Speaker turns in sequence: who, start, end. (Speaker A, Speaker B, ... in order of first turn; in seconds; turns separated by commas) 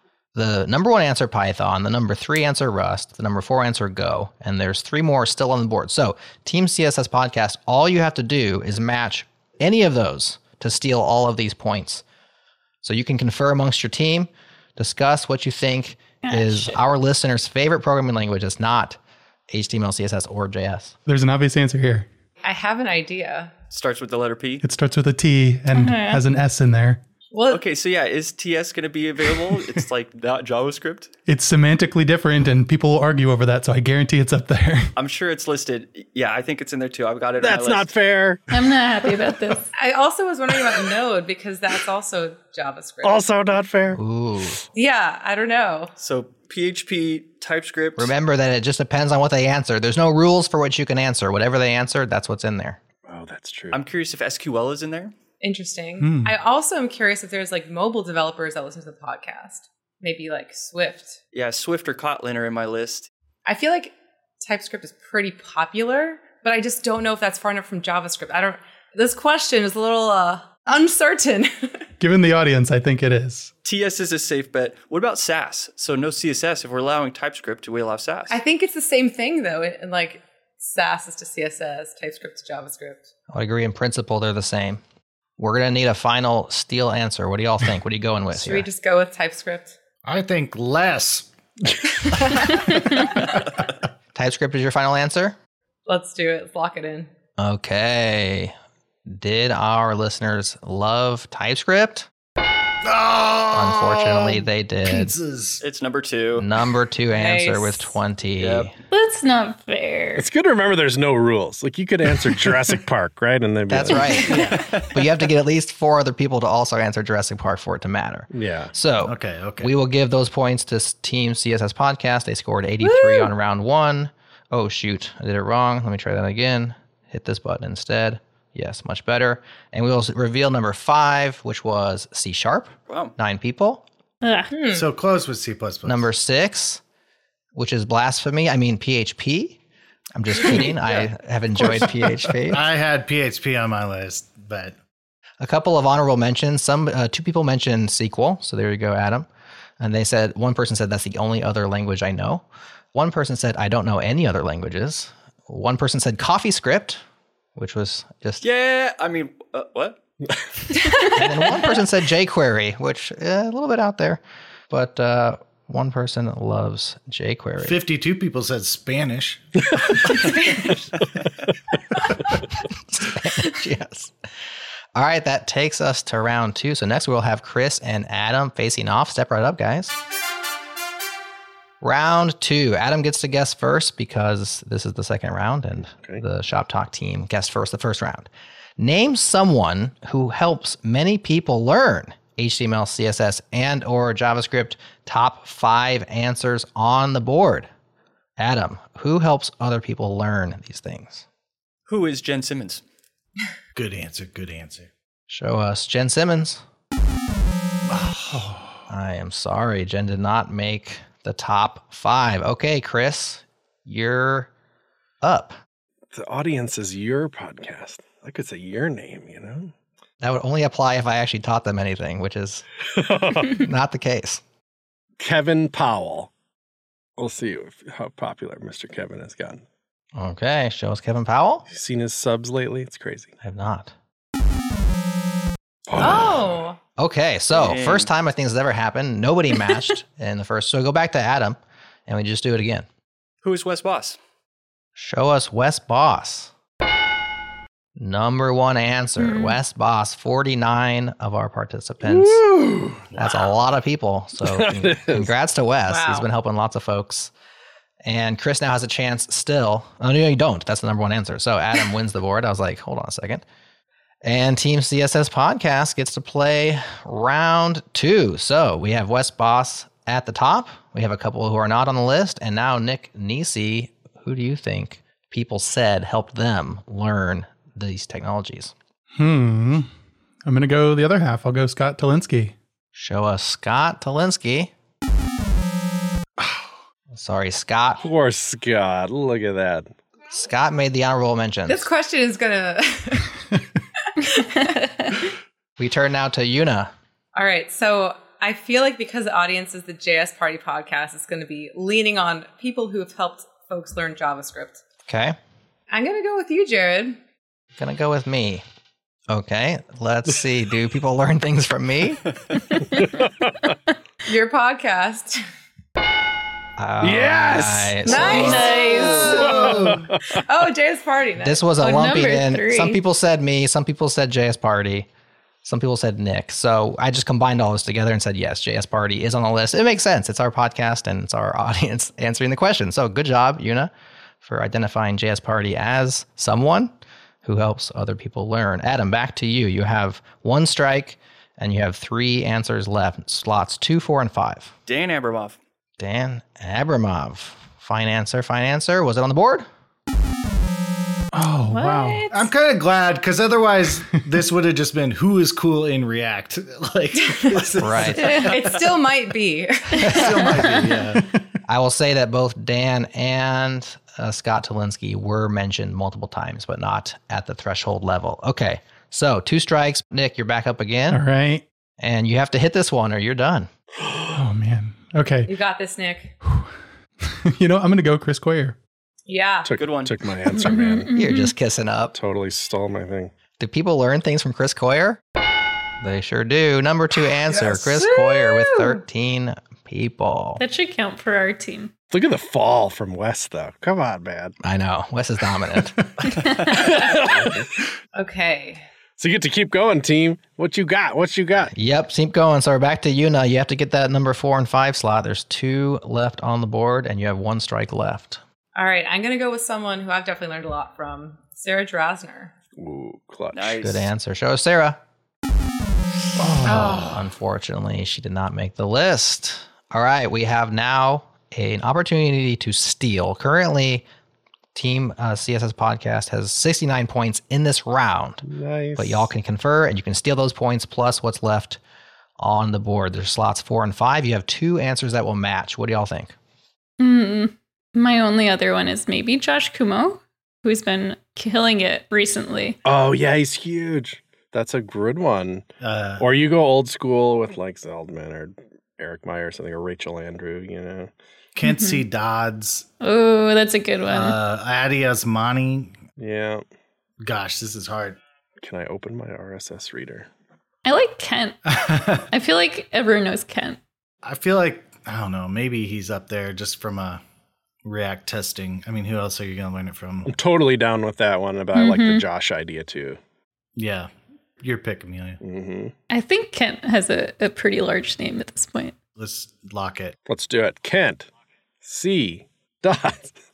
Speaker A: 0.3-12.0, Speaker A: 12.8-19.0, Speaker B: 16.2-16.8, Speaker A: 19.5-20.9, Speaker C: 21.1-22.1, Speaker D: 22.4-23.5, Speaker E: 23.7-24.6, Speaker C: 24.6-27.0, Speaker B: 25.7-26.2, Speaker D: 27.3-27.6, Speaker E: 27.5-31.1, Speaker C: 31.3-34.9, Speaker E: 35.0-37.9, Speaker F: 37.4-38.4, Speaker B: 38.5-39.7, Speaker D: 39.8-43.3, Speaker F: 43.0-44.0, Speaker A: 43.9-44.6, Speaker D: 44.7-45.9, Speaker E: 46.0-48.1, Speaker A: 48.0-52.8, Speaker F: 53.0-53.8, Speaker E: 53.7-55.1, Speaker D: 55.4-61.2, Speaker C: 56.0-56.3, Speaker E: 61.3-63.1, Speaker D: 63.5-71.9, Speaker C: 72.0-73.5, Speaker E: 73.6-78.4, Speaker D: 78.3-83.1, Speaker A: 83.3-84.8, Speaker A: 85.4-88.7, Speaker D: 88.3-89.8, Speaker G: 90.0-91.3, Speaker D: 92.0-93.4, Speaker A: 94.1-95.4, Speaker D: 95.8-97.1, Speaker A: 97.4-98.5, Speaker A: 99.1-102.1, Speaker G: 102.8-105.6, Speaker A: 103.5-105.1, Speaker E: 105.6-106.5, Speaker A: 106.3-108.7, Speaker D: 107.1-107.9, Speaker E: 108.4-108.7, Speaker B: 108.9-110.3, Speaker F: 110.2-114.3, Speaker A: 113.7-133.8, Speaker G: 114.2-114.6, Speaker E: 114.3-115.1, Speaker F: 118.3-118.7, Speaker G: 119.0-119.7, Speaker D: 122.8-123.3, Speaker E: 132.9-133.1, Speaker B: 134.2-134.5, Speaker D: 134.5-134.8, Speaker G: 134.7-136.1, Speaker A: 135.8-136.8, Speaker A: 137.5-139.6, Speaker A: 140.1-142.6, Speaker E: 140.3-141.1, Speaker G: 141.6-144.8, Speaker A: 145.4-149.3, Speaker A: 149.8-157.0, Speaker A: 157.6-158.4, Speaker E: 158.4-160.0, Speaker D: 160.7-161.6, Speaker A: 161.1-167.8, Speaker G: 167.6-169.8, Speaker D: 170.1-170.7, Speaker A: 172.9-174.1, Speaker A: 174.9-179.9, Speaker A: 181.8-197.7, Speaker F: 185.9-186.2, Speaker A: 198.4-201.2, Speaker E: 201.9-202.8, Speaker G: 203.7-204.9, Speaker A: 205.3-206.6, Speaker G: 207.8-208.7, Speaker A: 208.9-214.5, Speaker A: 215.2-215.6, Speaker F: 216.1-219.7, Speaker A: 220.2-222.6, Speaker F: 222.9-223.6, Speaker A: 223.4-224.4, Speaker F: 225.2-226.3, Speaker F: 227.2-229.6, Speaker A: 230.1-231.7, Speaker F: 231.7-233.3, Speaker A: 233.4-233.9, Speaker F: 235.9-236.5, Speaker D: 235.9-236.8, Speaker A: 237.0-242.9, Speaker E: 237.5-238.1, Speaker E: 243.4-244.2, Speaker A: 244.9-246.5, Speaker A: 247.9-252.4, Speaker B: 249.2-249.6, Speaker F: 252.0-253.1, Speaker A: 253.1-257.3, Speaker F: 254.4-255.3, Speaker D: 255.9-256.3, Speaker A: 258.0-263.4, Speaker A: 264.2-278.7, Speaker C: 279.1-279.9, Speaker C: 280.4-282.6, Speaker A: 282.9-284.7, Speaker A: 287.1-288.0, Speaker F: 288.0-289.9, Speaker A: 290.3-291.9, Speaker D: 291.7-293.4, Speaker D: 294.2-295.2, Speaker B: 294.6-295.1, Speaker A: 295.8-296.9, Speaker D: 297.3-304.8, Speaker A: 305.1-305.4, Speaker D: 305.9-307.2, Speaker A: 307.8-308.6, Speaker A: 309.3-312.2, Speaker F: 312.8-313.7, Speaker D: 314.2-315.4, Speaker A: 316.8-318.7, Speaker F: 317.0-320.4, Speaker D: 318.1-322.3, Speaker B: 318.1-319.5, Speaker G: 318.9-320.1, Speaker A: 321.4-325.1, Speaker B: 321.8-323.0, Speaker A: 325.6-333.9, Speaker A: 334.4-336.9, Speaker A: 337.4-344.7, Speaker E: 344.9-345.6, Speaker A: 346.0-349.7, Speaker C: 351.3-352.2, Speaker B: 351.7-352.5, Speaker G: 352.3-358.9, Speaker D: 357.2-360.7, Speaker A: 357.8-358.4, Speaker B: 358.2-358.5, Speaker G: 360.0-361.3, Speaker B: 360.2-360.7, Speaker A: 361.7-371.2, Speaker C: 371.1-371.6, Speaker A: 372.0-373.7, Speaker C: 374.3-375.5, Speaker D: 375.5-376.3, Speaker C: 377.3-378.8, Speaker D: 379.3-379.8, Speaker F: 379.6-381.1, Speaker E: 379.8-380.2, Speaker B: 380.5-381.5, Speaker A: 381.1-382.1, Speaker F: 382.1-383.3, Speaker A: 383.6-385.2, Speaker A: 386.0-390.6, Speaker D: 387.7-389.0, Speaker B: 390.6-391.9, Speaker F: 392.1-394.5, Speaker A: 394.6-396.0, Speaker F: 396.6-397.7, Speaker D: 396.8-397.3, Speaker D: 398.1-398.8, Speaker F: 399.2-401.7, Speaker A: 401.7-408.4, Speaker D: 408.7-412.5, Speaker F: 412.8-413.7, Speaker E: 413.5-414.1, Speaker A: 413.7-415.0, Speaker A: 416.6-424.1, Speaker G: 416.6-417.1, Speaker F: 416.7-417.0, Speaker A: 424.7-428.4, Speaker F: 428.4-429.3, Speaker A: 428.9-431.8, Speaker A: 432.4-436.3, Speaker B: 437.0-442.8, Speaker F: 442.8-445.6, Speaker G: 445.8-446.2, Speaker F: 446.2-451.1, Speaker G: 451.5-452.9, Speaker B: 451.6-452.1, Speaker B: 453.0-454.4, Speaker G: 454.1-456.0, Speaker F: 456.2-456.6, Speaker G: 457.2-458.2, Speaker F: 458.6-460.3, Speaker B: 460.8-463.8, Speaker G: 461.7-462.2, Speaker G: 464.2-467.2, Speaker G: 467.8-470.3, Speaker F: 470.2-473.2, Speaker B: 471.7-472.2, Speaker G: 473.8-475.4, Speaker F: 475.4-475.9, Speaker B: 476.1-478.9, Speaker G: 479.1-480.1, Speaker F: 480.3-481.3, Speaker F: 481.8-483.4